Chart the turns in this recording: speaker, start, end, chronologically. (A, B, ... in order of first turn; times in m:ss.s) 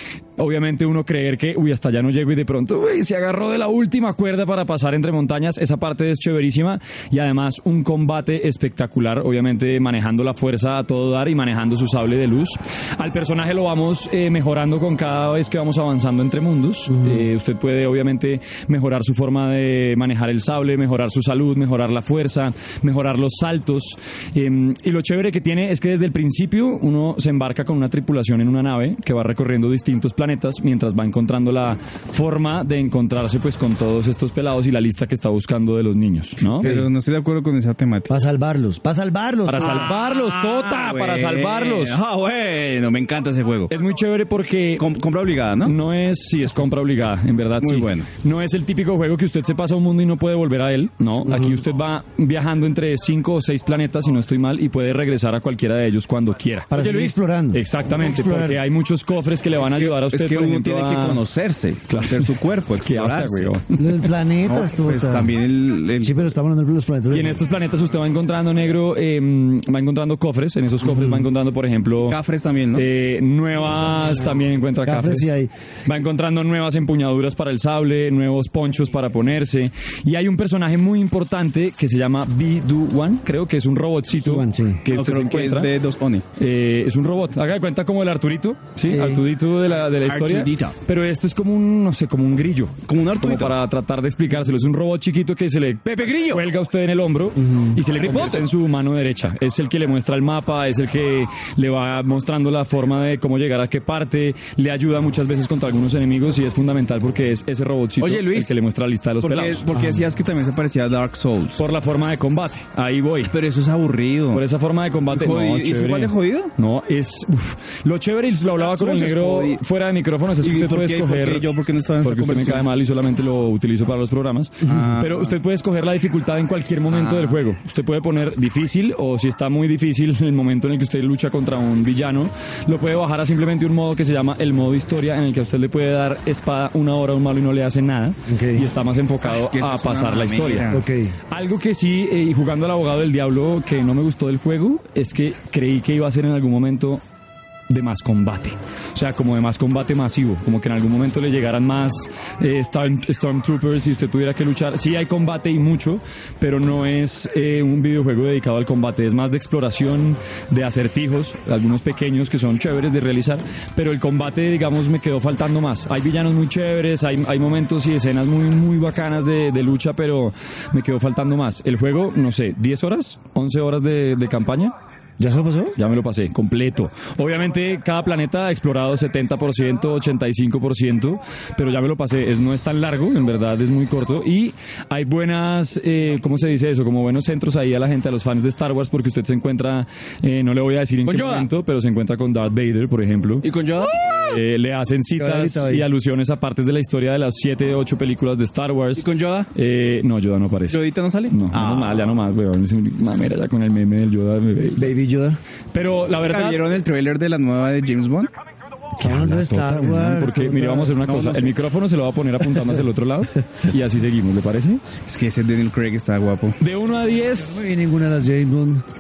0:00.4-0:36.7 A
0:36.6-0:38.1 B
0:36.6-0:36.9 C
0:38.1-0:39.9 C
0:39.5-0:42.0 A
0:39.6-0:43.7 B
0:43.7-0:44.9 A
0:44.8-0:45.8 B
0:45.6-1:01.2 A
0:47.6-0:48.1 B
0:51.3-0:51.6 C
0:56.7-0:58.6 C
0:59.6-1:03.6 B
1:01.9-1:02.3 A
1:02.8-1:04.1 A
1:03.8-1:05.4 C
1:04.5-1:06.2 B
1:06.0-1:07.4 C
1:07.1-1:12.2 A
1:12.1-1:12.9 B
1:12.8-1:15.3 A
1:14.8-1:15.5 C
1:15.9-1:25.7 A
1:24.2-1:24.8 C
1:24.9-1:26.2 B
1:26.4-1:49.7 A
1:28.8-1:29.2 C
1:30.1-1:30.8 B
1:32.9-1:33.6 B
1:35.9-1:36.4 B
1:37.4-1:37.8 C
1:37.9-1:38.5 B
1:48.0-1:48.6 B
1:49.2-1:51.6 B
1:49.8-1:50.0 C
1:51.6-1:53.4 A
1:53.3-1:54.4 B
1:54.3-2:01.5 A
1:55.1-1:56.5 B
1:58.6-1:59.6 B
2:00.4-2:02.7 B
2:02.0-2:20.7 A
2:04.6-2:05.4 B
2:06.9-2:07.4 B
2:18.3-2:18.7 C
2:19.2-2:20.8 B
2:20.7-2:21.2 C
2:21.3-2:27.0 A
2:27.7-2:54.7 A
2:55.2-2:55.8 C
2:55.8-3:13.5 A
3:11.1-3:11.5 B
3:13.4-3:14.4 B
3:14.3-3:24.9 A
3:15.2-3:15.8 C
3:19.0-3:19.5 B
3:20.7-3:22.1 B
3:24.8-3:25.4 C
3:25.7-3:26.7 A
3:26.2-3:28.3 B
3:29.0-3:31.1 C
3:29.0-3:34.8 A
3:31.0-3:31.6 B
3:35.1-3:36.6 B
3:36.6-3:37.7 A
3:37.4-3:38.8 C